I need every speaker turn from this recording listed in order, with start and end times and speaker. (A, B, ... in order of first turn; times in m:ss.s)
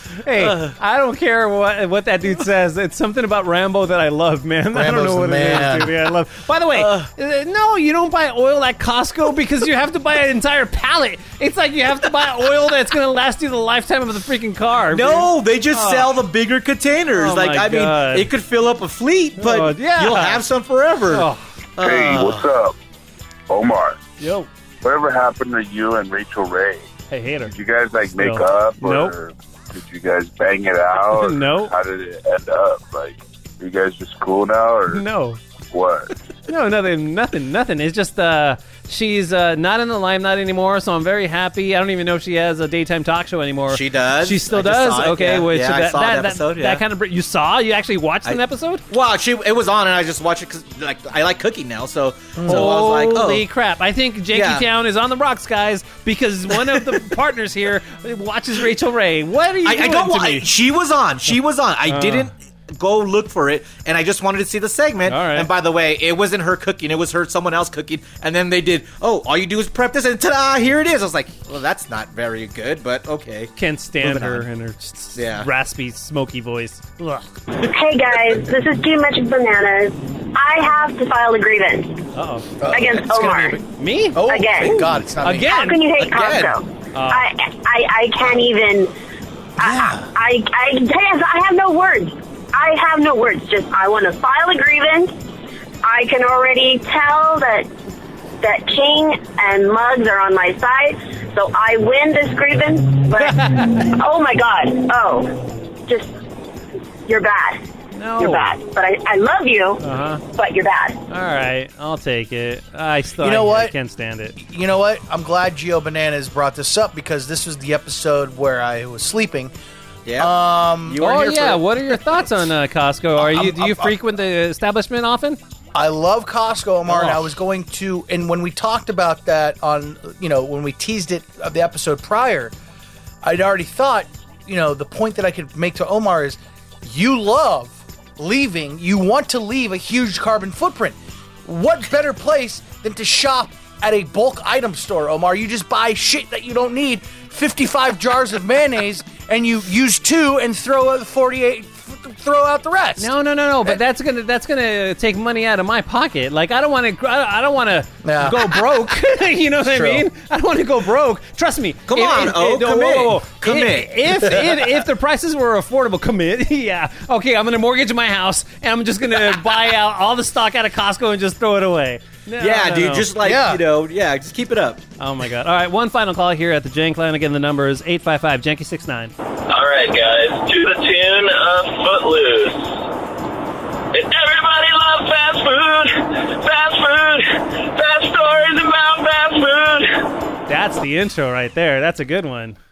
0:00.2-0:16.1 A
0:00.4-0:00.7 B
0:04.7-0:05.9 C
0:06.8-0:07.1 B
0:14.9-0:22.5 B
0:17.1-0:18.3 A
0:19.4-0:20.4 A
0:21.1-0:21.4 A
0:21.8-0:22.7 D
0:23.5-0:24.0 D
0:24.2-0:24.5 A
0:24.8-0:26.9 D
0:27.1-0:27.5 A
0:27.4-0:35.0 D
0:28.1-0:29.2 A
0:31.1-0:31.7 A
0:34.9-0:35.4 A
0:35.7-0:36.1 D
0:36.5-0:48.8 A
0:43.7-0:46.8 B
0:48.2-0:53.4 B
0:52.4-0:52.7 C
0:52.4-1:00.5 A
0:54.3-0:54.7 B
0:59.6-1:14.4 B
1:01.9-1:02.3 A
1:05.1-1:05.5 A
1:13.6-1:17.3 A
1:15.1-1:15.5 B
1:17.7-1:22.0 E
1:22.1-1:22.5 A
1:22.6-1:23.6 C
1:22.7-1:23.6 E
1:23.7-1:25.9 A
1:24.1-1:25.6 C
1:24.2-1:24.7 E
1:25.5-1:28.9 E
1:26.0-1:26.6 B
1:26.9-1:27.3 A
1:29.6-1:35.1 E
1:29.6-1:30.1 C
1:35.8-1:37.7 E
1:38.4-1:46.1 E
1:43.2-1:43.8 A
1:47.1-1:47.7 E
1:47.9-1:48.5 A
1:48.2-1:51.0 E
1:49.8-1:50.2 A
1:51.1-1:54.4 A
1:53.2-1:53.7 C
1:54.4-1:59.5 C
2:00.0-2:00.3 B
2:00.2-2:01.0 C
2:00.8-2:02.0 B
2:01.0-2:05.4 A
2:03.2-2:04.0 C
2:05.7-2:12.5 C
2:06.9-2:07.2 A
2:13.2-2:33.1 C
2:33.0-2:53.1 A
2:38.0-2:38.9 C
2:39.6-2:40.0 C
2:41.9-2:44.4 B
2:52.4-2:54.8 B
2:53.2-2:53.6 C
2:55.0-2:59.1 A
2:59.5-3:02.8 F
3:03.9-3:10.1 F
3:10.5-3:12.6 A